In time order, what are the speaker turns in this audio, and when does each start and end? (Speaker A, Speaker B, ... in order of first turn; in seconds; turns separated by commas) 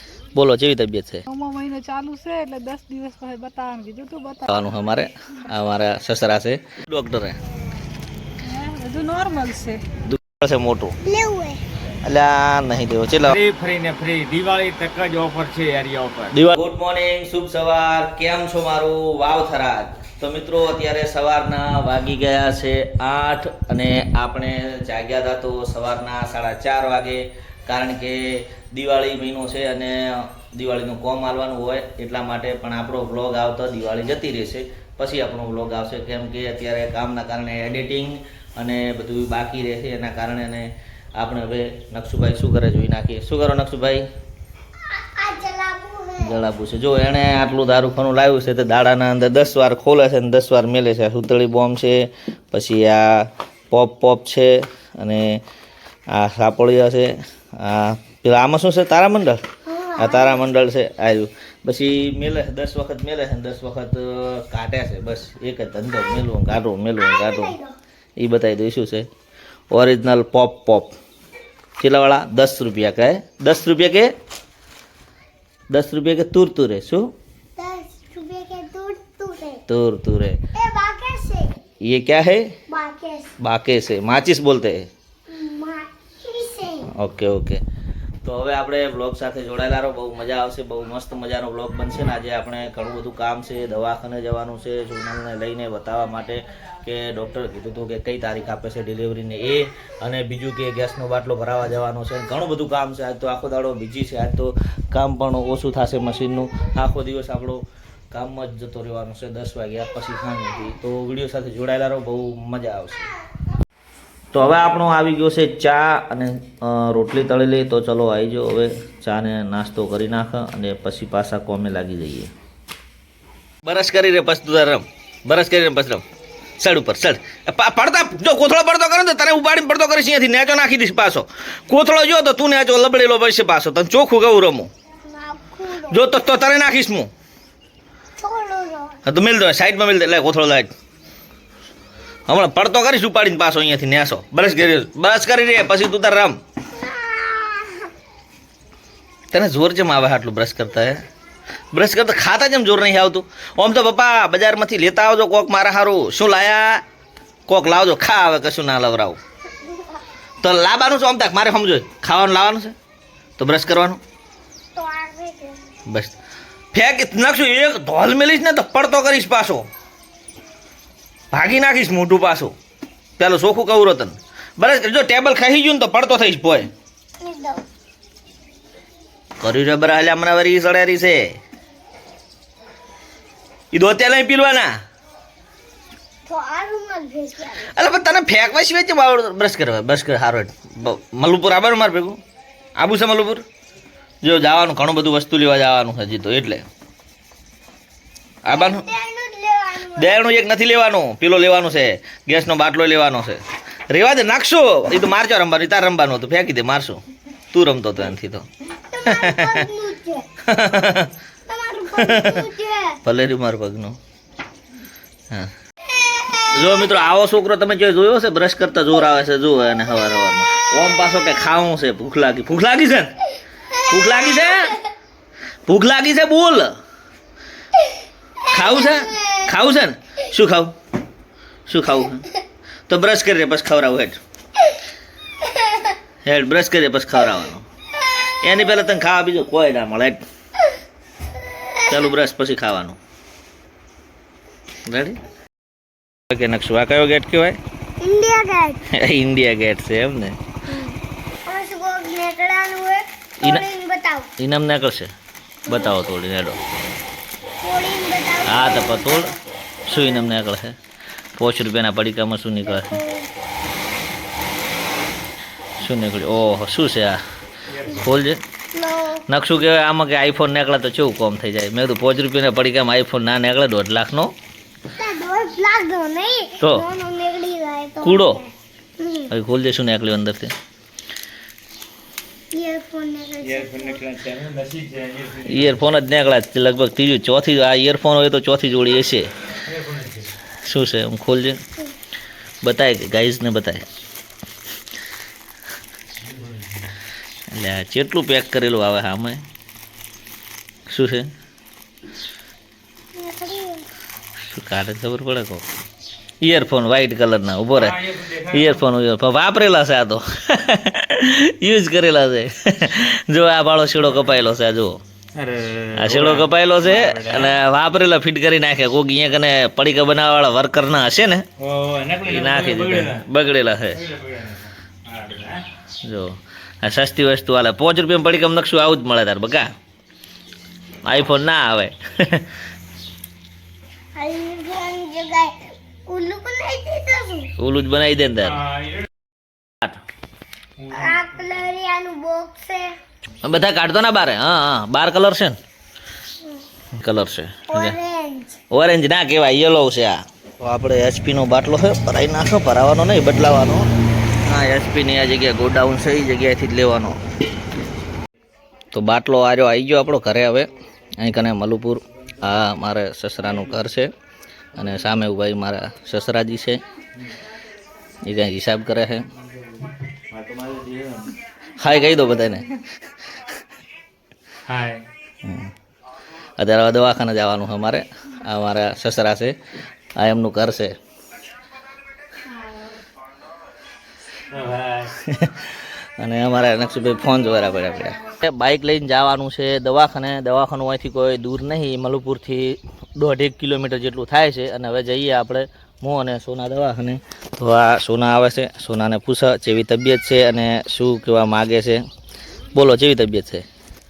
Speaker A: 0.3-1.2, Speaker B: 1.3-4.5, Speaker A: 4.5-7.4, Speaker B: 8.4-9.8, Speaker A: 10.1-11.0, Speaker C: 11.0-11.6, Speaker A: 12.1-13.4, Speaker D: 13.3-16.4, Speaker A: 16.3-44.0, Speaker C: 44.9-46.4, Speaker A: 46.2-55.4, Speaker A: 56.1-59.4, Speaker C: 59.6-60.4, Speaker A: 60.0-67.6, Speaker C: 67.0-67.8, Speaker A: 68.2-69.1, Speaker A: 69.7-71.0, Speaker A: 71.8-74.1, Speaker A: 75.7-77.1, Speaker C: 77.6-79.6, Speaker A: 79.7-80.4, Speaker C: 80.5-81.6, Speaker A: 81.8-82.5, Speaker C: 82.7-83.3, Speaker A: 83.4-84.9, Speaker C: 85.3-86.9, Speaker A: 86.9-87.6, Speaker A: 88.2-113.1, Speaker A: 114.3-122.3, Speaker A: 123.7-126.0, Speaker A: 126.6-134.7, Speaker C: 135.1-136.1, Speaker A: 135.9-137.1, Speaker C: 138.2-139.0, Speaker A: 139.1-140.7, Speaker A: 142.3-146.4, Speaker C: 146.7-147.9, Speaker A: 149.3-151.0, Speaker A: 151.7-156.8, Speaker A: 157.5-159.2, Speaker A: 160.4-162.8, Speaker A: 163.4-164.0, Speaker C: 164.8-165.7, Speaker A: 165.9-166.1, Speaker A: 166.7-169.7, Speaker A: 171.3-172.5, Speaker A: 173.2-176.7, Speaker C: 177.2-177.6, Speaker A: 179.4-181.4, Speaker A: 183.7-184.7, Speaker C: 186.3-187.7, Speaker A: 187.7-192.2, Speaker A: 192.8-193.4, Speaker A: 194.2-196.7, Speaker A: 198.4-198.8, Speaker C: 198.5-200.2, Speaker A: 199.9-208.5, Speaker C: 208.9-210.3, Speaker A: 209.1-209.6, Speaker A: 210.4-211.1, Speaker C: 211.5-213.0, Speaker A: 212.0-212.5, Speaker A: 213.1-214.0, Speaker A: 216.5-223.2, Speaker A: 223.8-224.8, Speaker A: 225.7-226.8, Speaker A: 228.5-230.7, Speaker A: 231.7-232.3, Speaker A: 232.9-234.2, Speaker A: 236.2-237.7, Speaker A: 238.4-240.2, Speaker A: 241.8-243.0, Speaker A: 244.9-245.2, Speaker A: 246.3-247.6, Speaker C: 248.0-248.8, Speaker A: 248.9-250.4, Speaker C: 250.7-254.3, Speaker A: 254.4-255.1, Speaker C: 255.7-256.0, Speaker A: 255.7-256.6, Speaker C: 257.6-259.4, Speaker A: 258.5-259.4, Speaker A: 259.9-260.8, Speaker A: 261.4-263.0, Speaker C: 262.6-263.3, Speaker A: 265.8-267.2, Speaker A: 267.9-268.4, Speaker C: 268.7-269.2, Speaker A: 269.3-274.3, Speaker C: 275.0-279.3, Speaker A: 276.6-276.9, Speaker A: 278.0-278.4, Speaker A: 279.3-280.5, Speaker C: 282.5-284.0, Speaker D: 283.4-285.7, Speaker A: 285.4-289.3, Speaker D: 289.7-290.3, Speaker A: 290.6-291.6, Speaker A: 292.6-293.8, Speaker A: 297.5-299.4, Speaker A: 300.9-301.3, Speaker C: 303.1-303.9, Speaker A: 304.5-305.7, Speaker A: 306.4-315.0, Speaker D: 307.8-308.7, Speaker D: 315.4-317.6, Speaker A: 315.9-321.4, Speaker D: 321.6-323.2, Speaker A: 322.2-324.0, Speaker D: 323.9-325.6, Speaker A: 326.0-329.7, Speaker A: 331.1-332.5, Speaker C: 334.2-337.5, Speaker A: 337.6-338.7, Speaker D: 338.7-339.0, Speaker D: 340.8-341.1, Speaker C: 340.9-342.9, Speaker A: 343.4-345.6, Speaker A: 346.9-348.0, Speaker C: 347.7-348.6, Speaker A: 348.7-353.9, Speaker A: 354.4-357.2, Speaker A: 358.9-364.1, Speaker A: 364.8-366.8, Speaker A: 368.2-369.3, Speaker D: 370.3-371.3, Speaker A: 371.8-372.8, Speaker D: 374.7-375.1, Speaker A: 375.4-375.7, Speaker A: 376.6-379.6, Speaker A: 380.2-381.0, Speaker D: 384.5-385.1, Speaker A: 385.1-402.0, Speaker A: 402.7-403.6